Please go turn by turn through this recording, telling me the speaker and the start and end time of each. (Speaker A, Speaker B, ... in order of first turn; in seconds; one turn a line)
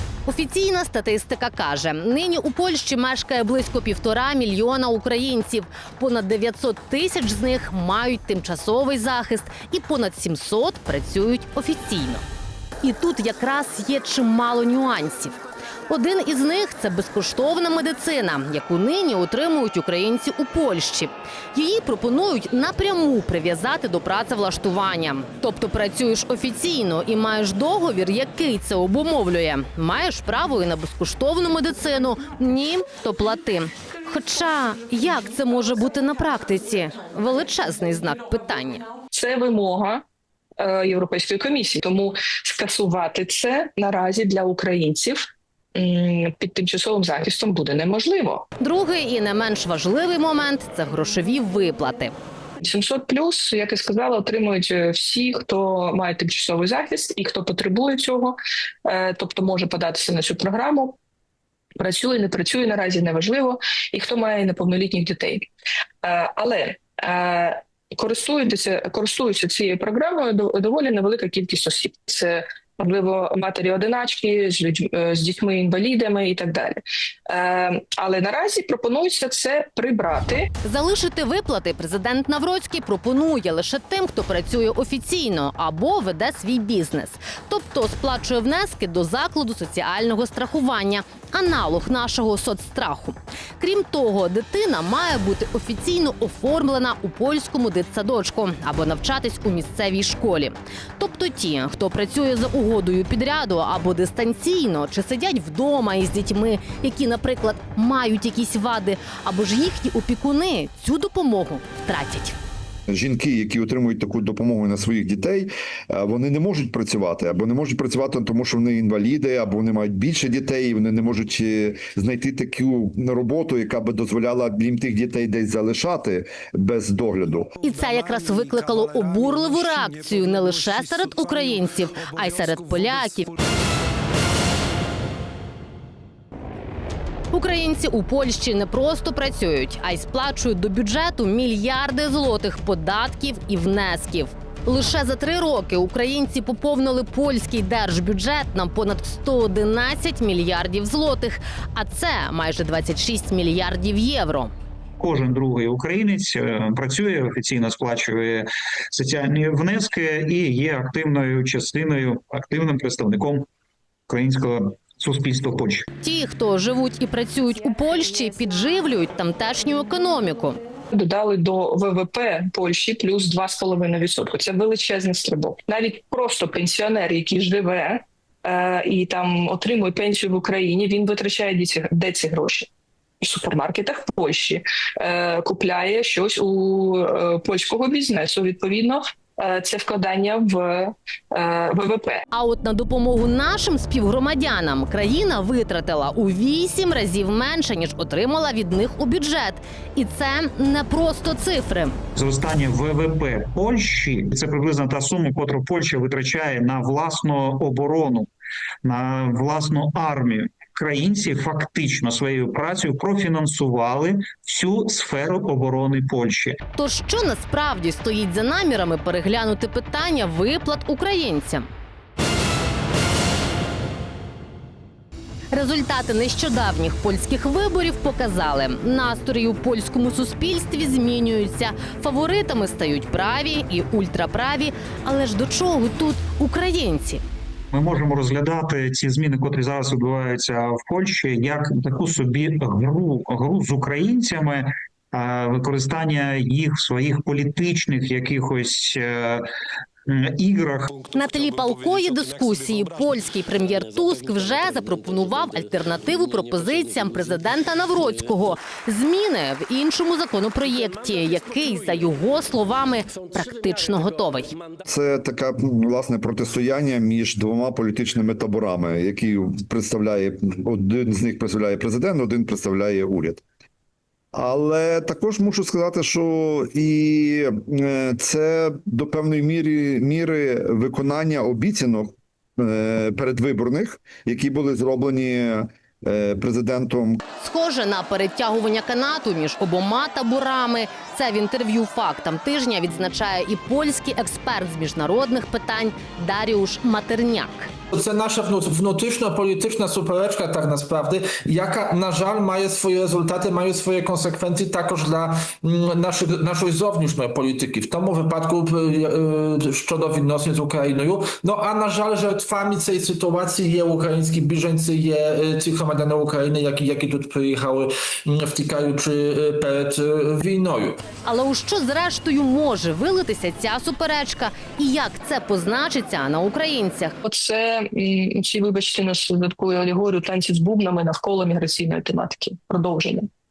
Speaker A: 0.2-12.2
Speaker A: 12.8-38.8
Speaker B: 39.1-40.0
Speaker B: 40.6-48.4
Speaker A: 48.6-52.1
Speaker B: 52.6-61.0
Speaker B: 61.8-65.5
Speaker B: 66.0-80.5
Speaker A: 80.6-112.3
Speaker C: 112.9-127.5
Speaker A: 127.6-133.3
Speaker A: 137.3-154.5
Speaker D: 155.0-163.5
Speaker D: 164.1-165.9
Speaker A: 166.0-170.6
Speaker B: 170.9-182.7
Speaker B: 183.2-192.2
Speaker A: 192.3-202.0
Speaker D: 202.1-208.3
Speaker D: 208.8-216.6
Speaker A: 216.8-221.7
Speaker A: 225.5-237.2
Speaker D: 237.7-249.4
Speaker D: 250.1-250.9
Speaker A: 251.1-264.5
Speaker C: 264.8-273.4
Speaker C: 274.3-287.2
Speaker A: 287.4-297.7
Speaker E: 297.9-321.0
Speaker A: 321.2-327.1
Speaker B: 327.2-333.3